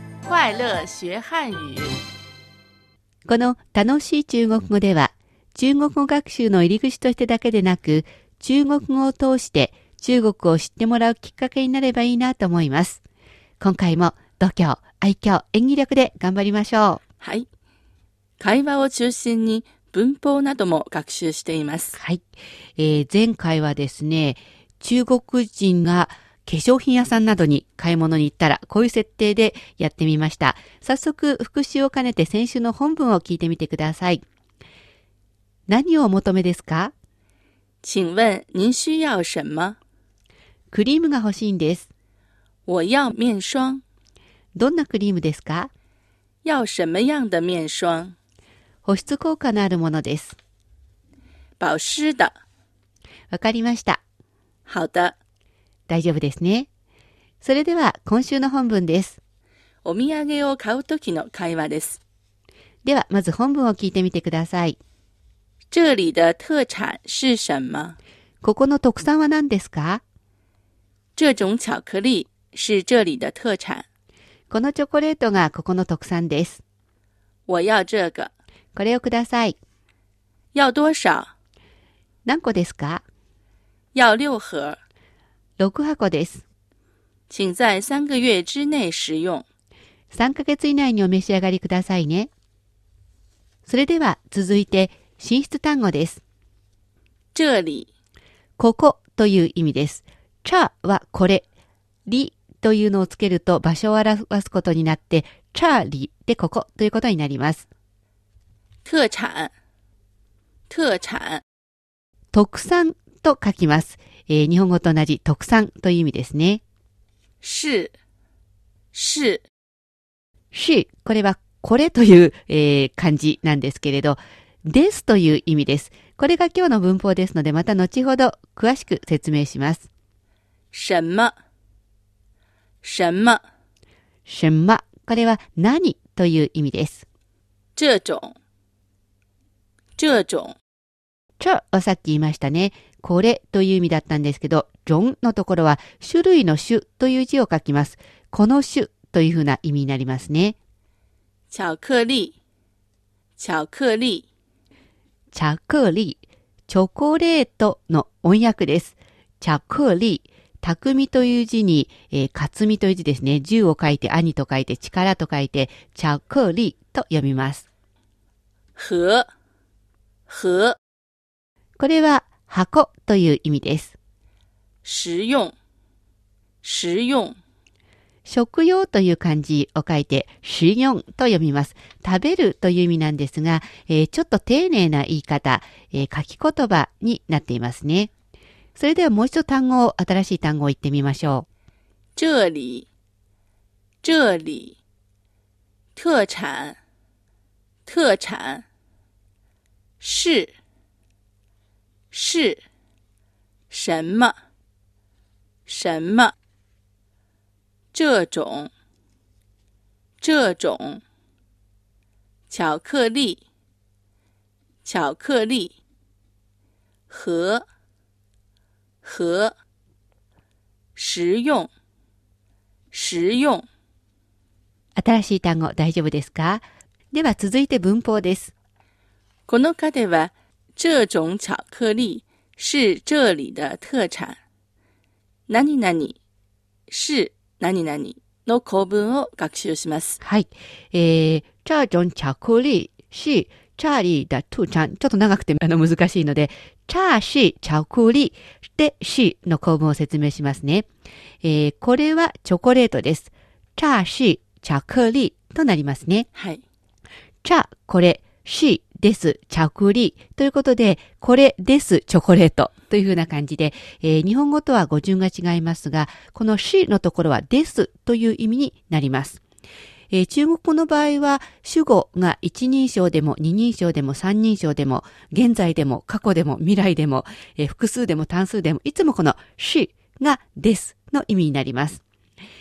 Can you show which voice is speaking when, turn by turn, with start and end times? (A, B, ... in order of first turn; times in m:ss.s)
0:00.2-0:02.0 A
0:03.3-0:13.0 B
0:13.6-0:17.0 B
0:17.2-0:17.5 A
0:18.4-0:22.0 A
0:22.0-0:22.3 B
0:22.8-0:34.2 B
0:35.7-0:36.9 B
0:37.8-0:39.8 A
0:40.7-0:41.9 B
0:42.7-0:43.8 A
0:44.6-0:45.7 B
0:46.4-0:48.1 A
0:48.8-0:50.4 B
0:51.6-0:52.4 A
0:53.3-0:54.0 B
0:54.7-0:55.1 A
0:55.9-0:56.7 B
0:57.4-0:59.2 B
0:59.8-1:02.0 A
1:02.8-1:04.8 B
1:05.7-1:08.0 A
1:08.4-1:10.0 B
1:11.2-1:13.8 A
1:14.5-1:16.6 B
1:17.5-1:18.3 A
1:18.8-1:19.6 B
1:20.5-1:21.3 A
1:22.2-1:23.0 B
1:23.9-1:24.8 A
1:25.6-1:26.4 B
1:27.3-1:29.4 A
1:30.1-1:32.3 B
1:33.7-1:36.2 B
1:37.4-1:37.9 A
1:38.6-1:41.4 B
1:42.1-1:47.6 B
1:48.8-1:49.5 A
1:50.7-1:51.4 A
1:52.3-1:56.6 B
1:57.4-1:57.9 A
1:58.9-1:59.4 A
2:00.5-2:09.9 B
2:10.7-2:11.3 A
2:12.8-2:13.4 A
2:14.3-2:17.0 B
2:17.8-2:18.4 A
2:20.0-2:20.6 A
2:21.4-2:30.6 B
2:31.5-2:32.3 A
2:33.4-2:34.2 A
2:35.3-2:47.7 B
2:48.8-2:49.3 A
2:50.3-2:50.8 A
2:51.8-2:53.9 B
2:54.8-2:55.5 A
2:56.6-2:57.4 A
2:58.2-3:08.1 B
3:08.8-3:11.4 B
3:12.2-3:12.9 A
3:14.0-3:14.8 A
3:16.0-3:16.8 A
3:17.8-3:18.6 A
3:20.0-3:20.5 A
3:22.1-3:22.6 A
3:23.7-3:24.3 A
3:25.7-3:26.3 A
3:27.9-3:28.7 A
3:30.2-3:31.0 A
3:32.5-3:33.4 A
3:34.8-3:35.8 A
3:37.1-3:37.6 A
3:39.0-3:39.5 A
3:41.0-3:41.7 A
3:42.9-3:43.7 A
3:45.0-3:48.5 B
3:49.5-3:54.4 A
3:55.5-3:56.2 A
3:56.9-4:00.2 A
4:00.2-4:10.9 B
4:11.4-4:16.3 B
4:16.4-4:16.6 A
4:17.4-4:29.4 B
4:30.1-4:42.0 B